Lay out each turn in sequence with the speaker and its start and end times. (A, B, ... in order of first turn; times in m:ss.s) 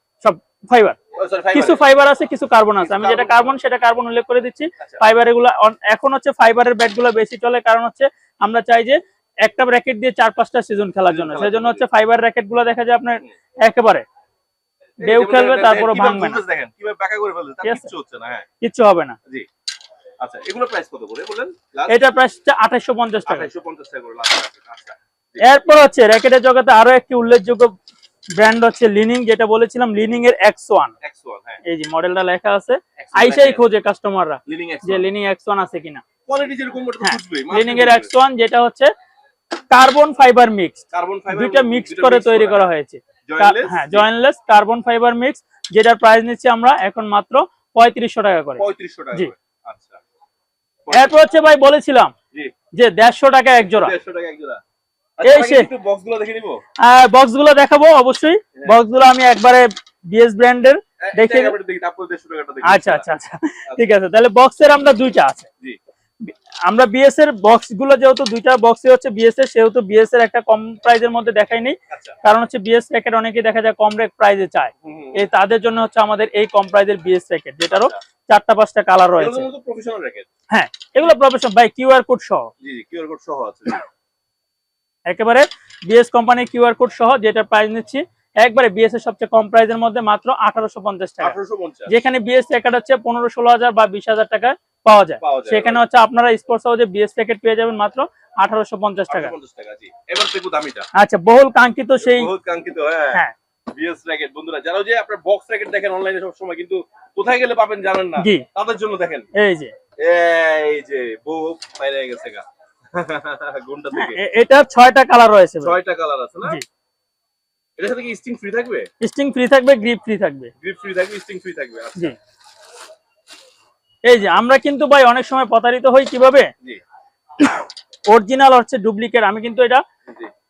0:00.2-0:01.0 A
0:01.2-0:01.8 B
0:01.5-0:14.0 A
0:02.8-0:03.6 B
0:11.1-0:11.8 B
0:15.0-0:18.5 B
0:15.0-0:16.4 A
0:18.6-0:19.2 A
0:20.2-0:22.0 B
0:21.9-0:23.5 A
0:23.3-0:25.4 B
0:25.4-0:27.7 A
0:28.4-0:30.9 A
0:31.0-0:31.6 B
0:31.6-0:36.0 A
0:33.0-0:33.6 B
0:34.5-0:35.0 B
0:36.3-0:38.1 B
0:37.0-0:38.9 A
0:39.7-0:48.6 A
0:40.9-0:42.7 B
0:43.3-0:44.1 B
0:48.6-0:50.0 B
0:50.8-0:51.2 B
0:50.9-0:52.1 A
0:52.7-0:53.9 A
0:53.6-0:54.6 B
0:55.2-0:56.6 B
0:55.2-0:55.7 A
0:56.8-1:01.6 A
1:01.0-1:03.1 B
1:02.6-1:05.5 A
1:06.2-1:19.5 A
1:11.9-1:12.2 B
1:14.8-1:15.3 B
1:17.7-1:18.0 B
1:19.2-1:20.3 B
1:20.5-1:22.5 A
1:22.6-1:23.8 B
1:25.1-1:31.4 A
1:31.2-1:31.9 B
1:31.9-1:39.3 A
1:35.2-1:35.8 B
1:39.1-1:40.9 B
1:41.0-1:42.3 A
1:42.0-1:43.2 B
1:43.8-1:49.3 B
1:48.2-1:48.4 A
1:49.4-1:49.7 A
1:50.0-1:54.2 B
1:54.0-1:55.7 A
1:55.6-1:56.6 B
1:57.8-1:58.9 B
1:59.0-2:00.5 A
2:00.6-2:02.2 B
2:04.1-2:06.5 A
2:08.1-2:09.8 A